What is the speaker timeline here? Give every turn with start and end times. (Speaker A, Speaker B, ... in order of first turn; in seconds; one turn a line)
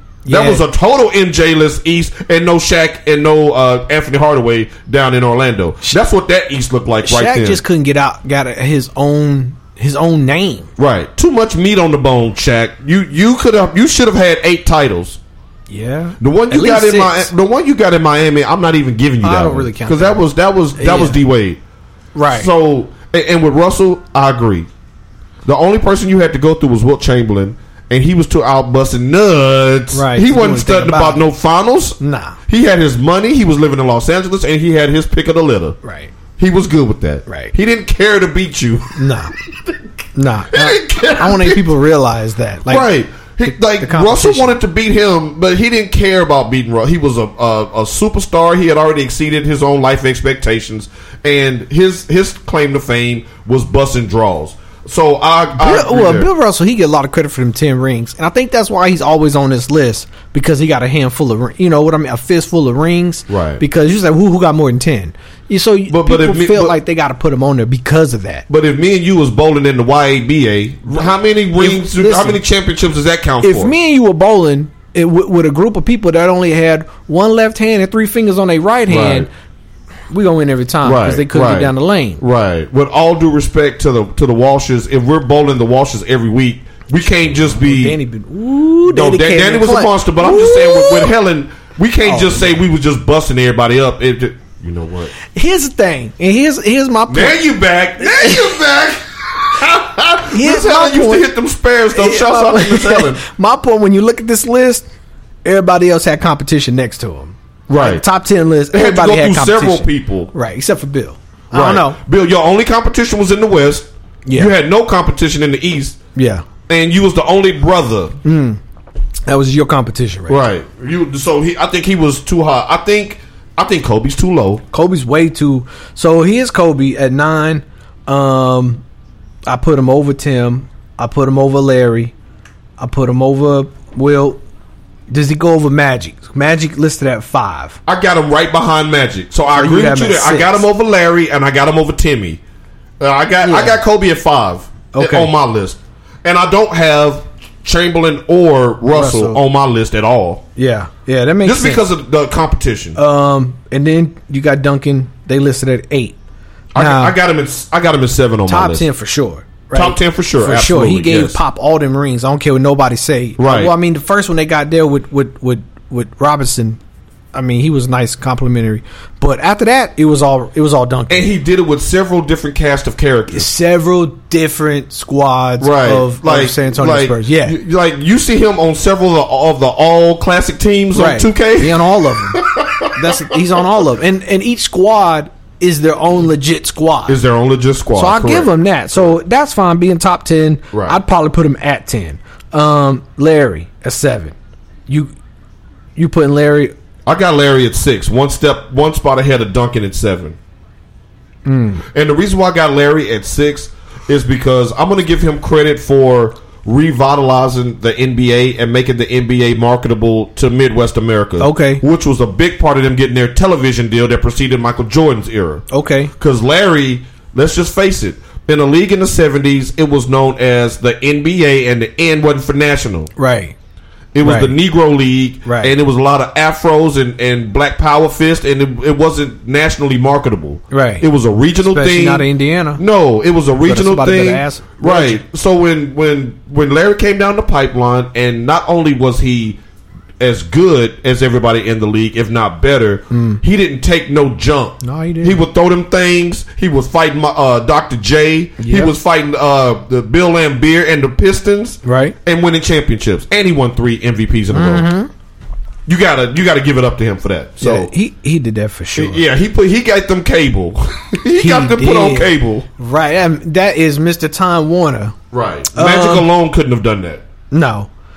Speaker A: 0.2-0.6
Speaker B: 0.3-7.6
Speaker A: 7.0-10.7
Speaker B: 10.8-15.2
Speaker A: 15.7-17.3
Speaker B: 16.2-21.6
Speaker A: 19.2-20.2
Speaker A: 20.8-21.2
Speaker A: 22.1-22.5
Speaker B: 22.3-24.7
Speaker B: 25.4-35.8
Speaker A: 29.9-31.2
Speaker A: 32.0-32.4
Speaker A: 35.8-36.1
Speaker B: 36.4-39.0
Speaker A: 37.3-37.5
Speaker A: 39.0-39.3
Speaker A: 40.1-42.9
Speaker B: 40.5-41.7
Speaker B: 42.7-56.3
Speaker A: 43.6-44.5
Speaker A: 55.6-68.5
Speaker B: 63.3-63.6
Speaker B: 65.9-66.8
Speaker B: 68.5-73.7
Speaker A: 70.9-72.4
Speaker A: 73.4-79.3
Speaker B: 78.9-79.3
Speaker A: 80.1-82.2
Speaker B: 80.8-88.0
Speaker A: 87.3-91.1
Speaker B: 88.9-95.1
Speaker A: 92.0-92.6
Speaker A: 95.3-97.5
Speaker B: 97.1-103.2
Speaker A: 98.0-98.6
Speaker A: 100.3-101.3
Speaker A: 101.9-104.9
Speaker A: 105.5-112.0
Speaker B: 107.7-108.0
Speaker B: 108.7-110.3
Speaker B: 111.5-116.0
Speaker A: 114.3-114.5
Speaker A: 116.2-116.5
Speaker B: 116.7-118.2
Speaker A: 118.2-118.6
Speaker A: 119.3-120.4
Speaker B: 120.3-124.6
Speaker A: 124.7-128.8
Speaker A: 129.5-132.1
Speaker A: 132.8-134.4
Speaker A: 135.1-137.8
Speaker B: 137.9-142.4
Speaker A: 139.5-140.6
Speaker B: 143.0-150.4
Speaker A: 143.4-143.8
Speaker A: 144.9-145.3
Speaker A: 148.9-149.4
Speaker A: 150.6-151.8
Speaker B: 151.4-153.0
Speaker A: 153.0-156.2
Speaker B: 156.7-158.9
Speaker A: 156.8-157.2
Speaker A: 158.5-166.8
Speaker B: 159.7-161.4
Speaker B: 163.4-163.7
Speaker A: 167.3-171.3
Speaker B: 171.1-173.5
Speaker A: 173.3-177.6
Speaker B: 175.6-181.8
Speaker A: 180.9-187.2
Speaker B: 182.3-183.4
Speaker B: 187.1-189.1
Speaker A: 187.9-194.3
Speaker B: 190.7-191.0
Speaker A: 196.0-196.7
Speaker B: 197.1-200.4
Speaker A: 201.4-201.8
Speaker B: 201.9-215.7
Speaker A: 211.4-211.8
Speaker A: 215.7-216.1
Speaker B: 216.2-223.1
Speaker A: 223.2-223.6
Speaker B: 224.1-239.6
Speaker A: 224.2-224.5
Speaker A: 225.4-225.7
Speaker A: 230.7-231.1
Speaker A: 231.6-232.8
Speaker A: 233.7-235.2
Speaker B: 240.2-254.9
Speaker A: 243.1-243.4
Speaker A: 244.8-245.4
Speaker A: 248.6-248.9
Speaker A: 251.8-252.2
Speaker A: 254.5-255.1
Speaker B: 255.9-257.9
Speaker A: 257.6-259.2
Speaker B: 259.0-262.7
Speaker A: 261.4-265.1
Speaker B: 265.3-267.2
Speaker A: 265.7-266.3
Speaker A: 267.5-267.9